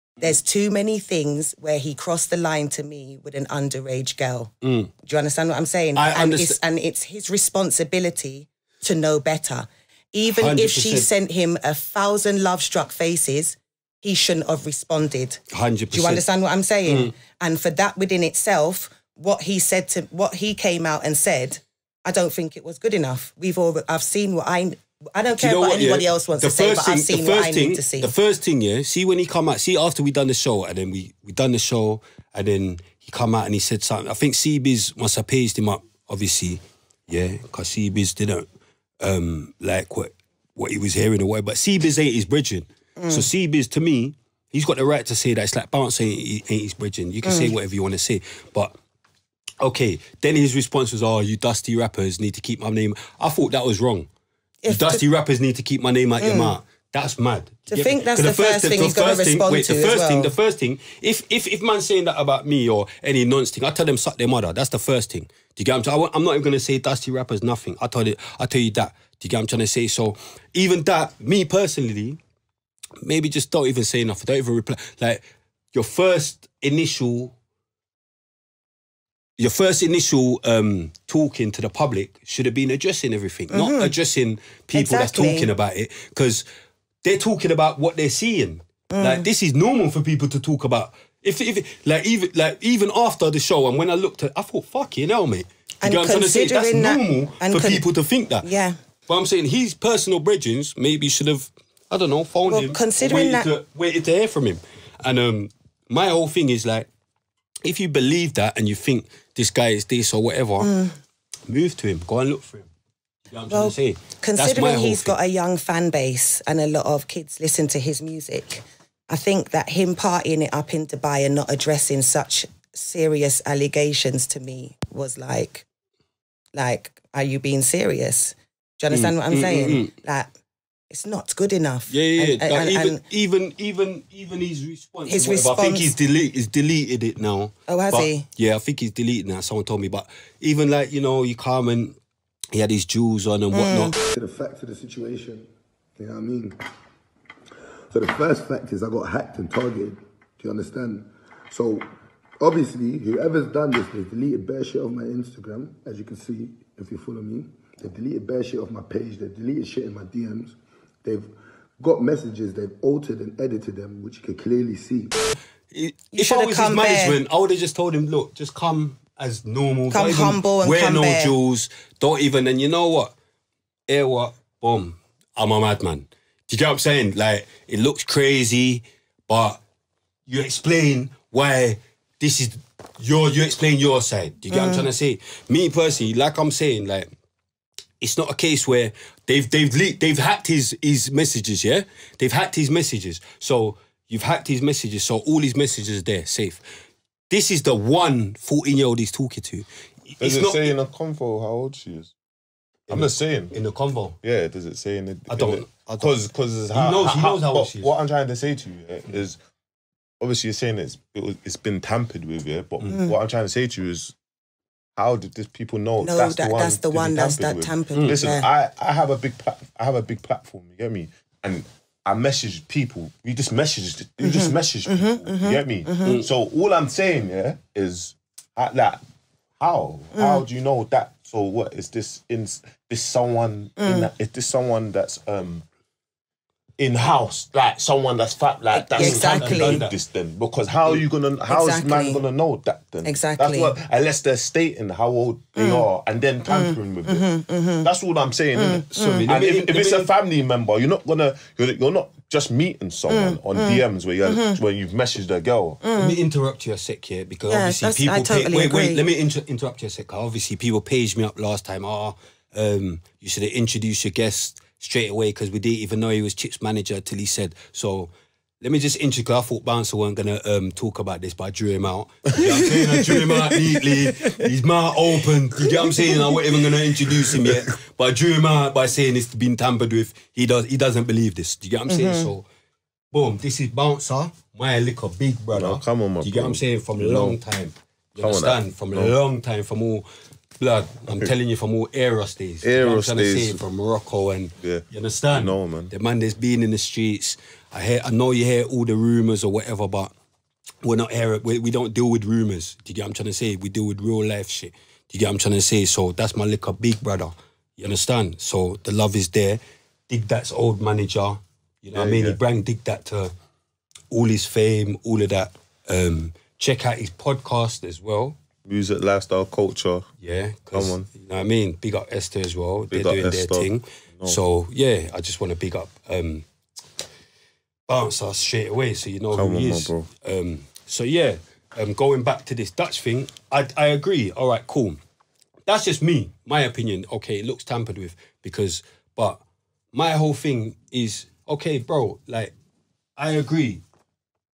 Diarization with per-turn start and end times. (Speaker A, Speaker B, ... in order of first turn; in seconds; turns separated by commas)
Speaker A: 0.2-4.5, Speaker B: 4.6-4.9, Speaker A: 5.0-28.1, Speaker B: 5.9-6.6, Speaker B: 10.3-11.1, Speaker B: 15.5-16.2, Speaker B: 16.9-17.1, Speaker B: 25.4-38.5, Speaker B: 39.0-48.7, Speaker A: 43.0-43.3, Speaker A: 47.2-47.5, Speaker B: 49.6-54.1, Speaker A: 54.6-55.0, Speaker B: 54.7-72.2, Speaker A: 56.2-56.5, Speaker A: 57.7-60.4, Speaker B: 73.0-75.2, Speaker B: 75.7-77.3, Speaker B: 79.4-86.5, Speaker A: 83.5-84.0, Speaker A: 84.7-85.5, Speaker B: 87.0-98.5, Speaker A: 88.9-89.2, Speaker A: 95.8-97.8, Speaker A: 98.4-98.8, Speaker B: 99.1-106.9, Speaker A: 102.5-103.5, Speaker B: 107.6-110.8, Speaker A: 110.6-110.9, Speaker B: 111.5-112.7, Speaker B: 113.3-115.1, Speaker A: 113.5-125.7, Speaker A: 126.5-130.3, Speaker B: 128.9-129.9, Speaker A: 130.9-133.0, Speaker B: 131.9-142.0, Speaker A: 135.1-135.9, Speaker A: 137.7-138.3, Speaker B: 142.5-143.9, Speaker A: 143.5-143.9, Speaker C: 144.1-145.4, Speaker C: 146.0-146.6, Speaker C: 147.9-151.9, Speaker C: 152.4-160.5, Speaker C: 161.1-165.1, Speaker B: 165.7-173.1, Speaker A: 166.1-167.2, Speaker A: 169.9-171.3, Speaker B: 173.9-179.6, Speaker B: 180.3-187.1, Speaker A: 184.5-184.9, Speaker B: 188.0-196.6, Speaker B: 197.3-200.7, Speaker D: 200.2-202.1, Speaker B: 202.9-204.2, Speaker D: 202.9-203.5, Speaker D: 204.2-209.4, Speaker B: 205.3-206.1, Speaker B: 206.7-207.9, Speaker D: 210.2-214.2, Speaker A: 212.9-213.2, Speaker D: 214.9-229.0, Speaker A: 216.0-218.5, Speaker A: 224.2-226.2, Speaker D: 229.6-235.6, Speaker A: 230.2-230.4, Speaker A: 233.8-234.1, Speaker D: 236.8-247.3, Speaker A: 238.7-239.8, Speaker B: 238.9-239.9, Speaker A: 241.5-242.2, Speaker A: 243.0-243.8, Speaker A: 245.6-245.9, Speaker A: 246.5-247.9, Speaker D: 247.8-255.8, Speaker A: 248.6-249.3, Speaker B: 249.0-250.1, Speaker A: 253.1-254.6, Speaker A: 255.8-256.2, Speaker B: 255.9-282.5, Speaker A: 257.5-259.0, Speaker D: 272.4-273.2, Speaker A: 275.9-276.2, Speaker A: 281.9-282.3, Speaker B: 283.1-290.1, Speaker D: 285.5-287.4, Speaker D: 288.2-289.2, Speaker B: 290.6-300.1, Speaker D: 291.1-291.3, Speaker D: 292.6-293.6, Speaker D: 294.6-295.9, Speaker B: 300.8-313.3, Speaker D: 311.9-312.4, Speaker B: 314.1-318.4, Speaker D: 318.7-320.1, Speaker B: 320.2-326.4, Speaker D: 320.7-321.1, Speaker D: 322.9-324.4, Speaker B: 327.9-335.0, Speaker D: 329.3-330.1, Speaker B: 335.7-339.4, Speaker B: 339.9-342.5, Speaker B: 343.2-343.8